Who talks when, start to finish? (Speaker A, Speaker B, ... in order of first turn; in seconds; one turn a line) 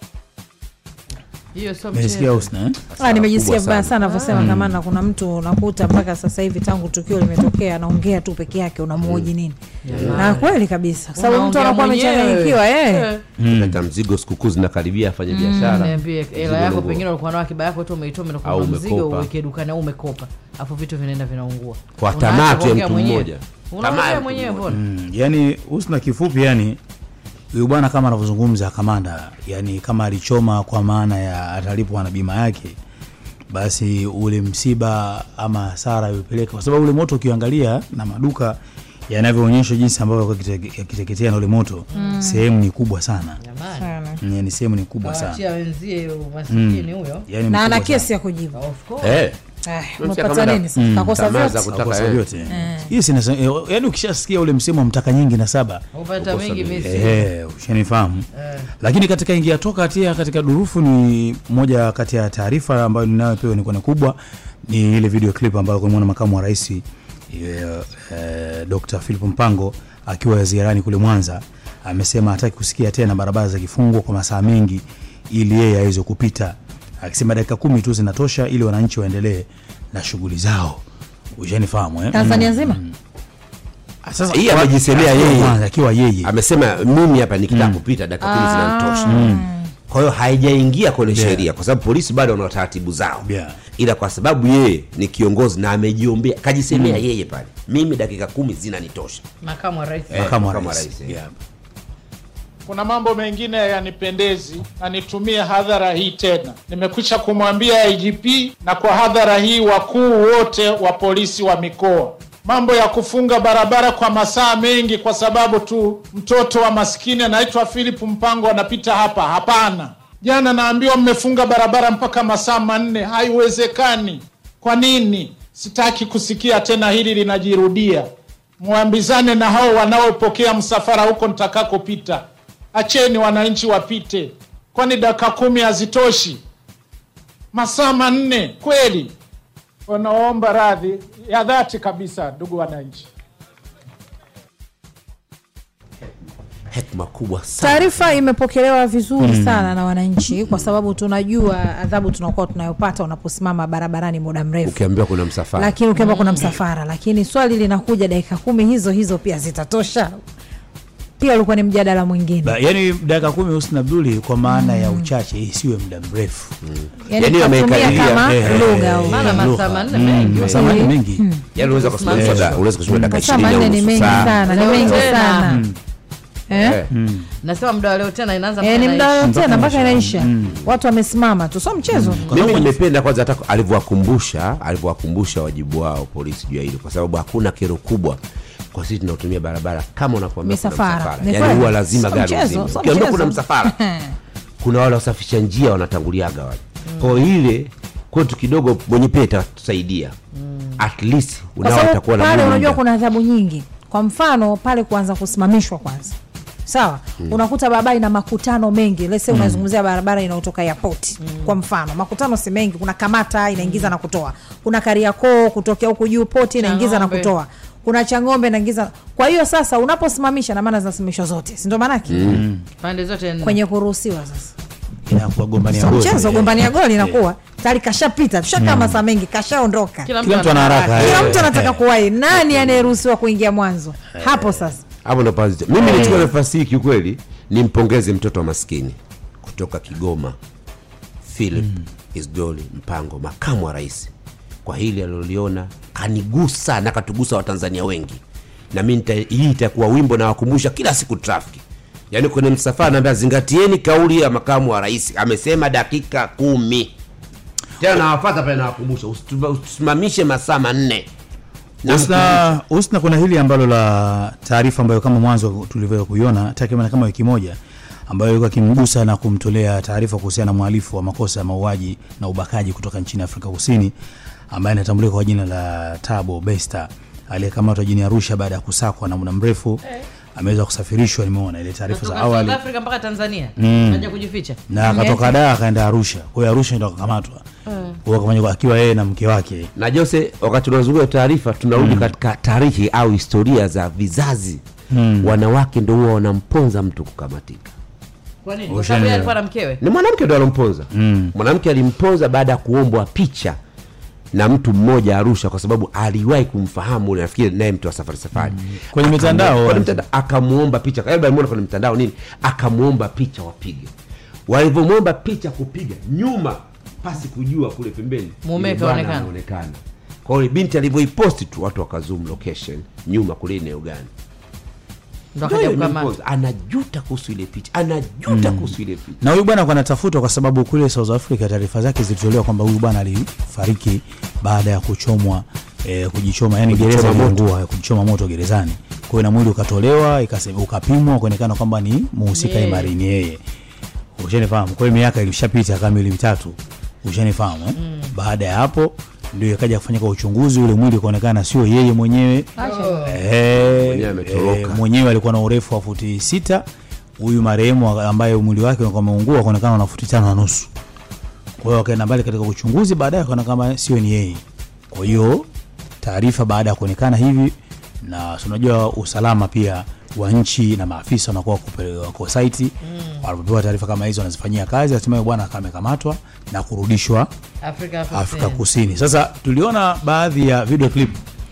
Speaker A: 1.5-2.5
Speaker B: 1.9-2.8
Speaker C: 2.9-4.0
Speaker D: 3.0-9.6
Speaker A: 4.0-4.5
Speaker B: 4.3-4.8
Speaker C: 9.0-9.3
Speaker A: 9.8-10.6
Speaker C: 9.9-10.3
Speaker D: 10.1-13.1
Speaker A: 11.1-13.2
Speaker B: 13.4-13.8
Speaker C: 13.5-17.0
Speaker A: 15.3-24.8
Speaker C: 18.4-19.3
Speaker C: 22.0-24.7
Speaker B: 24.7-26.8
Speaker B: 27.5-32.8
Speaker B: 33.5-38.6
Speaker B: 39.1-43.4
Speaker D: 41.9-42.4
Speaker A: 43.4-43.9
Speaker D: 43.8-44.2
Speaker B: 44.2-45.4
Speaker A: 45.0-47.3
Speaker B: 46.5-48.1
Speaker D: 47.5-48.5
Speaker A: 48.5-49.2
Speaker C: 49.0-49.4
Speaker D: 49.6-51.6
Speaker C: 50.0-52.2
Speaker B: 50.8-55.8
Speaker D: 52.5-52.9
Speaker A: 55.9-57.2
Speaker C: 56.2-57.0
Speaker B: 56.8-58.2
Speaker A: 58.3-58.7
Speaker B: 58.8-80.8
Speaker B: 81.4-82.9
Speaker D: 82.1-82.8
Speaker B: 84.0-86.3
Speaker C: 84.3-85.6
Speaker C: 86.2-89.3
Speaker B: 87.5-87.8
Speaker D: 88.2-89.6
Speaker B: 89.0-89.4
Speaker C: 89.9-99.2
Speaker B: 91.1-91.5
Speaker B: 93.2-93.6
Speaker B: 96.7-97.0
Speaker A: 99.4-100.2
Speaker B: 100.1-101.3
Speaker C: 100.1-101.2
Speaker E: 102.7-128.1
Speaker E: 128.6-136.4
Speaker E: 137.5-139.1
Speaker E: 139.9-143.1
Speaker C: 146.7-148.2
Speaker D: 147.6-154.8
Speaker B: 149.2-149.7
Speaker C: 150.4-150.7
Speaker C: 154.6-155.8
Speaker D: 155.6-160.2
Speaker A: 155.9-156.5
Speaker D: 161.2-162.6
Speaker B: 162.4-166.5
Speaker D: 164.4-165.1
Speaker C: 166.6-169.0
Speaker D: 167.1-169.3
Speaker B: 167.8-171.2
Speaker A: 169.1-170.8
Speaker C: 170.4-170.7
Speaker D: 170.5-171.4
Speaker C: 171.6-175.1
Speaker A: 171.6-172.5
Speaker B: 172.1-174.3
Speaker D: 173.1-175.6
Speaker A: 174.4-175.6
Speaker B: 175.4-175.8
Speaker D: 176.5-176.8
Speaker C: 176.5-176.9
Speaker B: 176.9-177.3
Speaker A: 177.4-179.3
Speaker D: 178.6-182.3
Speaker B: 179.2-180.6
Speaker B: 181.9-182.7
Speaker C: 182.3-188.2
Speaker C: 188.7-193.8
Speaker D: 190.4-194.1
Speaker C: 194.6-200.1
Speaker A: 196.8-197.1
Speaker A: 200.3-200.8
Speaker C: 200.8-202.8
Speaker D: 201.6-222.2
Speaker B: 209.3-209.6
Speaker A: 211.2-211.5
Speaker A: 213.6-213.9
Speaker A: 216.6-217.3
Speaker C: 222.1-222.4
Speaker B: 222.2-222.6
Speaker A: 222.8-223.6
Speaker D: 223.4-224.5
Speaker B: 225.1-227.2
Speaker D: 225.7-230.1
Speaker B: 228.6-229.0
Speaker A: 230.0-231.4
Speaker B: 230.2-231.8
Speaker D: 230.9-234.8
Speaker B: 234.2-234.6
Speaker C: 235.0-240.3
Speaker B: 235.8-236.3
Speaker C: 241.2-244.1
Speaker C: 244.6-248.2
Speaker C: 248.7-256.9
Speaker C: 257.8-261.1
Speaker C: 261.8-262.5
Speaker B: 261.8-273.9
Speaker B: 274.5-279.8
Speaker B: 280.3-282.6
Speaker A: 281.9-285.1
Speaker B: 283.6-284.1
Speaker B: 284.7-287.4
Speaker D: 284.9-285.2
Speaker A: 287.7-288.0
Speaker B: 288.0-289.7
Speaker C: 289.8-294.6
Speaker B: 291.7-292.1
Speaker B: 294.9-295.4
Speaker C: 295.2-297.7
Speaker A: 298.4-299.8
Speaker B: 298.7-299.4
Speaker C: 299.8-303.6
Speaker B: 300.9-301.3
Speaker C: 304.3-313.9
Speaker B: 308.4-310.0
Speaker C: 314.5-324.1
Speaker A: 318.4-319.3
Speaker A: 325.4-326.1
Speaker C: 325.4-329.2
Speaker B: 328.3-343.4
Speaker C: 336.7-337.4
Speaker A: 342.3-342.9
Speaker B: 344.2-352.5
Speaker A: 347.8-348.1
Speaker D: 352.6-353.0
Speaker A: 352.6-353.2
Speaker B: 353.1-356.6
Speaker C: 353.5-354.8
Speaker B: 357.2-360.7
Speaker B: 361.6-365.5
Speaker B: 366.0-377.3
Speaker A: 372.8-373.2
Speaker A: 377.6-378.6
Speaker B: 378.1-381.2